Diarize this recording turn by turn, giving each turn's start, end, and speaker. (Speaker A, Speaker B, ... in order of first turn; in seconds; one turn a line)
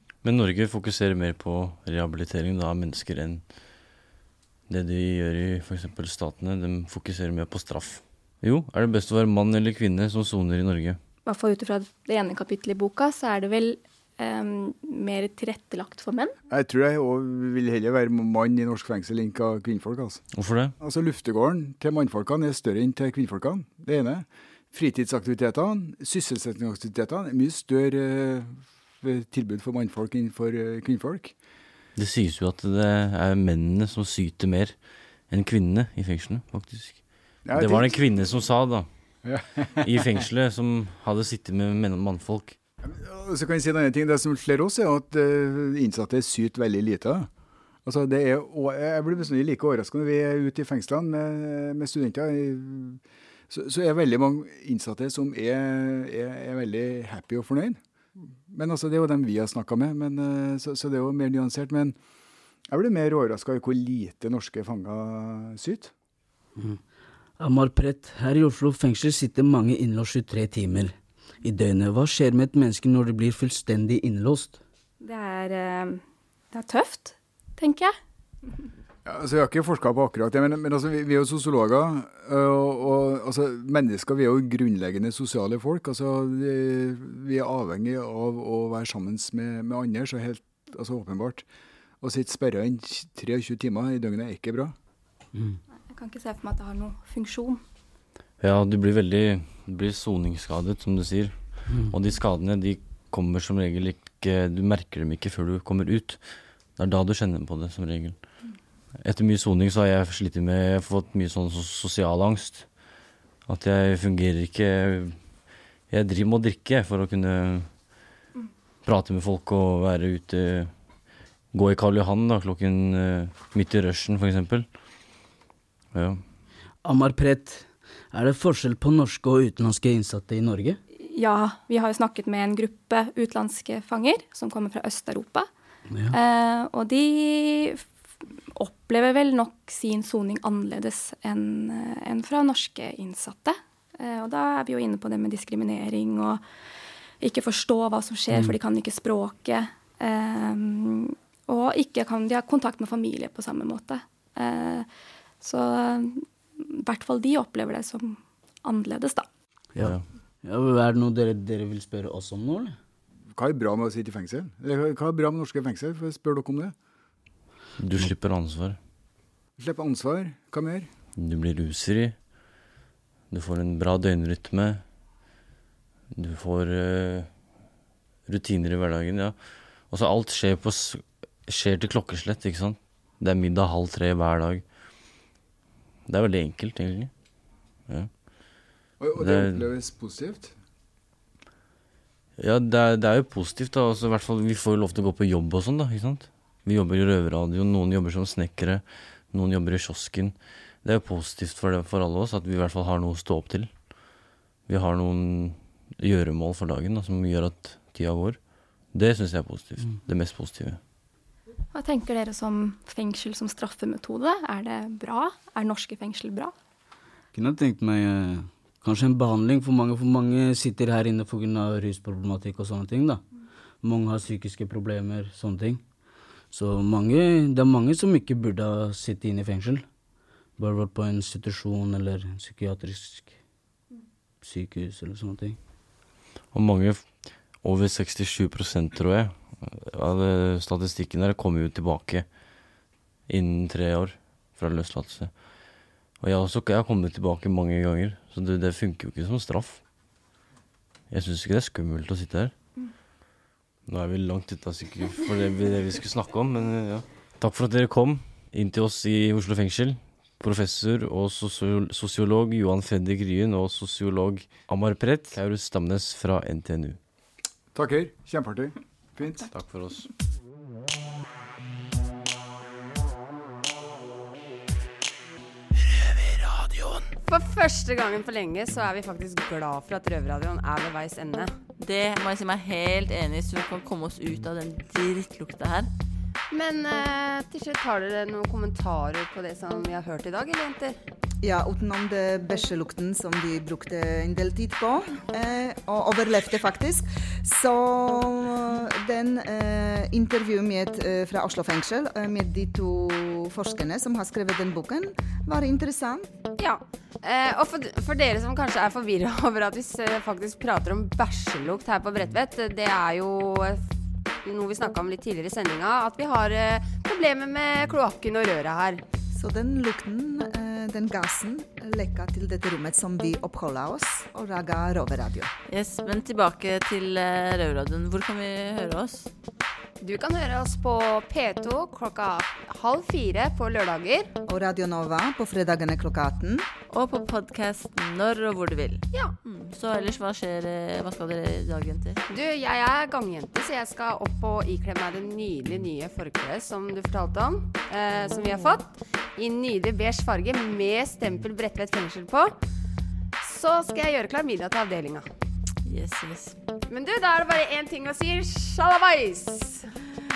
Speaker A: 0.2-3.4
Speaker A: 4.7-11.0
Speaker B: 11.2-16.3
Speaker C: 16.5-20.2
Speaker A: 20.3-20.7
Speaker C: 20.8-31.4
Speaker A: 31.9-34.8
Speaker A: 35.3-37.0
Speaker C: 37.5-38.2
Speaker A: 37.5-38.9
Speaker C: 39.2-40.2
Speaker A: 39.8-42.6
Speaker C: 42.8-47.3
Speaker C: 47.8-57.8
Speaker C: 58.5-61.9
Speaker C: 62.7-65.9
Speaker D: 67.4-74.6
Speaker B: 75.0-76.0
Speaker B: 76.5-77.9
Speaker C: 79.0-91.4
Speaker C: 92.0-94.7
Speaker B: 95.9-97.6
Speaker A: 98.4-101.3
Speaker D: 101.7-102.0
Speaker A: 101.9-106.2
Speaker A: 106.8-108.2
Speaker A: 109.0-112.7
Speaker A: 113.5-115.2
Speaker A: 115.9-117.7
Speaker A: 118.8-120.7
Speaker A: 121.5-124.7
Speaker A: 125.9-126.2
Speaker D: 126.8-130.8
Speaker B: 131.0-135.5
Speaker D: 135.9-136.2
Speaker B: 136.1-137.8
Speaker B: 138.5-146.4
Speaker B: 147.2-154.9
Speaker D: 148.3-148.6
Speaker B: 155.4-159.2
Speaker D: 159.7-162.8
Speaker C: 163.3-166.7
Speaker A: 167.8-168.8
Speaker C: 169.6-170.9
Speaker A: 171.2-172.2
Speaker A: 173.3-174.8
Speaker A: 176.1-177.3
Speaker A: 178.3-179.3
Speaker A: 179.9-184.6
Speaker A: 186.1-187.1
Speaker C: 189.0-190.5
Speaker A: 189.2-189.6
Speaker A: 192.4-203.7
Speaker A: 204.7-208.4
Speaker A: 208.9-210.8
Speaker B: 211.7-216.5
Speaker D: 217.3-223.2
Speaker D: 223.8-225.8
Speaker D: 226.5-229.8
Speaker D: 230.6-233.3
Speaker D: 234.4-235.6
Speaker A: 236.5-237.1
Speaker A: 237.6-242.2
Speaker A: 243.3-245.3
Speaker A: 246.2-249.8
Speaker A: 251.1-252.5
Speaker A: 253.9-267.0
Speaker C: 267.7-269.4
Speaker A: 269.4-270.1
Speaker E: 277.3-281.5
Speaker F: 281.8-285.9
Speaker E: 286.5-291.0
Speaker G: 291.4-306.3
Speaker E: 306.6-313.8
Speaker E: 314.4-319.0
Speaker G: 319.3-325.5
Speaker F: 325.7-329.3
Speaker E: 330.0-334.3
Speaker G: 334.5-336.7
Speaker F: 336.9-342.2
Speaker E: 342.3-352.6
Speaker E: 353.4-355.3
Speaker F: 355.8-356.6
Speaker E: 356.9-359.9